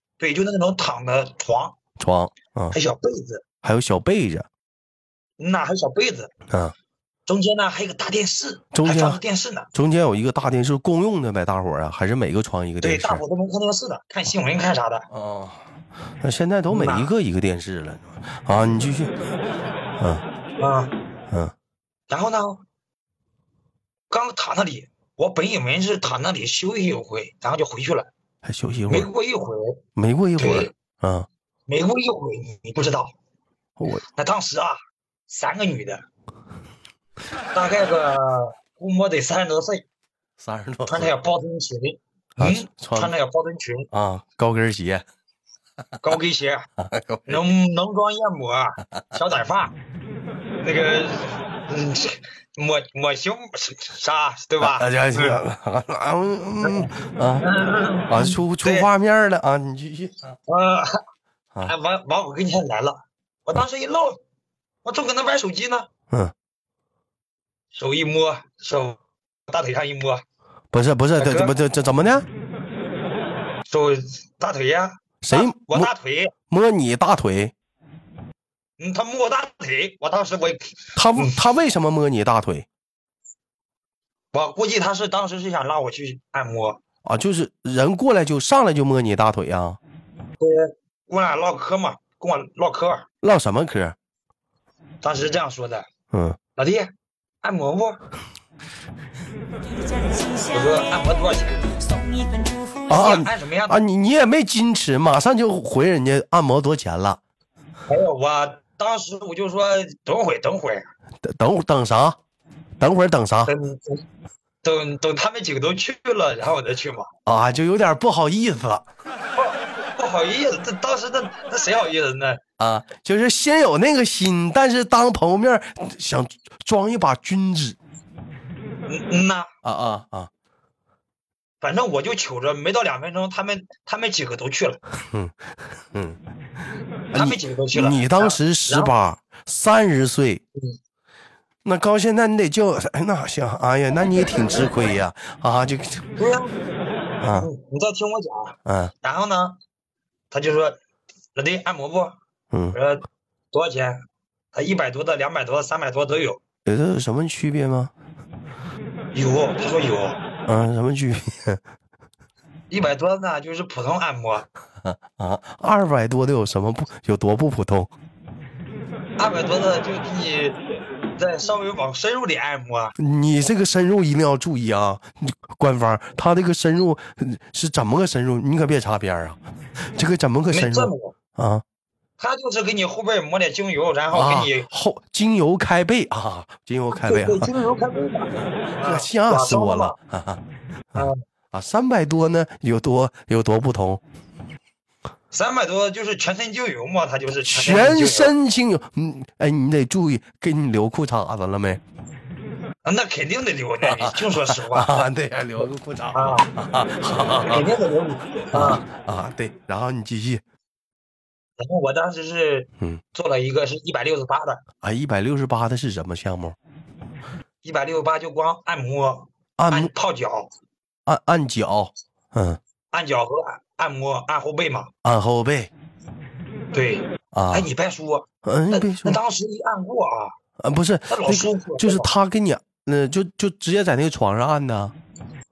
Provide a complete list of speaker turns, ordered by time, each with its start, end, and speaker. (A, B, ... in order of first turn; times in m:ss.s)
0:00.2-0:01.7 A
0:02.0-0:02.8 B
0:02.7-0:03.4 A
0:03.6-0:04.5 B
0:05.4-0:06.3 A
0:07.2-0:09.7 A
0:08.7-0:09.2 B
0:09.7-0:13.2 B
0:12.8-0:15.1 A
0:15.1-0:15.6 B
0:16.2-0:19.1 B
0:16.7-0:17.1 A
0:20.0-0:20.2 B
0:20.6-0:20.9 A
0:22.1-0:22.6 A
0:24.1-0:28.1 A
0:28.4-0:29.1 B
0:28.9-0:29.8 A
0:30.0-0:31.3 B
0:30.4-0:30.7 A
0:31.7-0:33.1 A
0:34.0-0:36.0 A
0:37.5-0:39.8 A
0:40.4-0:41.1 B
0:40.9-0:43.9 A
0:42.4-0:43.1 B
0:43.9-0:45.0 B
0:46.0-0:46.7 A
0:46.8-0:47.4 B
0:47.3-0:49.7 A
0:50.6-0:55.4 A
0:54.6-0:57.5 B
0:56.6-0:58.9 A
0:58.1-1:00.1 B
1:00.4-1:01.0 A
1:01.6-1:04.2 A
1:04.8-1:05.9 A
1:07.7-1:10.2 A
1:10.7-1:12.2 B
1:11.2-1:11.6 A
1:13.7-1:16.3 A
1:15.2-1:15.9 B
1:16.5-1:17.5 B
1:18.8-1:21.4 A
1:21.0-1:22.6 B
1:24.3-1:26.8 A
1:27.0-1:29.8 B
1:30.4-1:33.0 A
1:33.2-1:34.0 B
1:35.0-1:35.9 A
1:36.1-1:36.4 B
1:36.6-1:38.0 A
1:40.5-1:41.7 A
1:42.9-1:43.8 A
1:42.9-1:47.2 B
1:47.9-1:50.9 A
1:51.2-1:52.2 B
1:52.8-1:53.5 B
1:53.4-1:54.0 A
1:54.6-1:57.1 A
1:57.2-1:58.8 B
1:59.4-2:02.4 A
2:02.6-2:07.8 B
2:08.9-2:09.5 A
2:09.6-2:10.3 B
2:11.6-2:14.8 A
2:15.1-2:15.4 B
2:15.9-2:16.2 B
2:17.1-2:20.4 B
2:17.1-2:18.9 A
2:21.6-2:26.1 B
2:26.2-2:26.5 A
2:27.2-2:27.5 B
2:27.3-2:29.6 A
2:28.6-2:28.9 B
2:30.3-2:30.8 A
2:31.3-2:32.1 A
2:32.5-2:32.8 B
2:32.7-2:34.0 A
2:34.5-2:36.4 A
2:36.6-2:37.9 B
2:39.1-2:40.2 A
2:40.5-2:41.6 B
2:42.7-2:44.4 A
2:44.8-2:47.9 B
2:49.2-2:50.6 A
2:51.2-2:52.9 A
2:53.0-2:59.4 B
3:00.0-3:01.6 B
3:00.5-3:01.1 A
3:02.2-3:04.7 A
3:04.1-3:07.5 B
3:06.9-3:09.9 A
3:08.8-3:10.4 B
3:10.9-3:14.0 B
3:10.9-3:11.2 A
3:15.3-3:18.3 A
3:17.4-3:21.8 B
3:22.8-3:25.1 A
3:23.8-3:27.7 B
3:26.1-3:26.5 A
3:27.4-3:28.8 A
3:28.5-3:30.4 B
3:31.6-3:34.6 A
3:34.8-3:36.6 B
3:37.6-3:40.5 A
3:39.6-3:39.9 B
3:41.0-3:42.6 B
3:42.9-3:44.9 A
3:45.0-3:45.7 B
3:46.7-3:50.3 A
3:47.3-3:47.7 B
3:48.4-3:49.2 B
3:50.6-3:54.9 B
3:51.1-3:52.1 A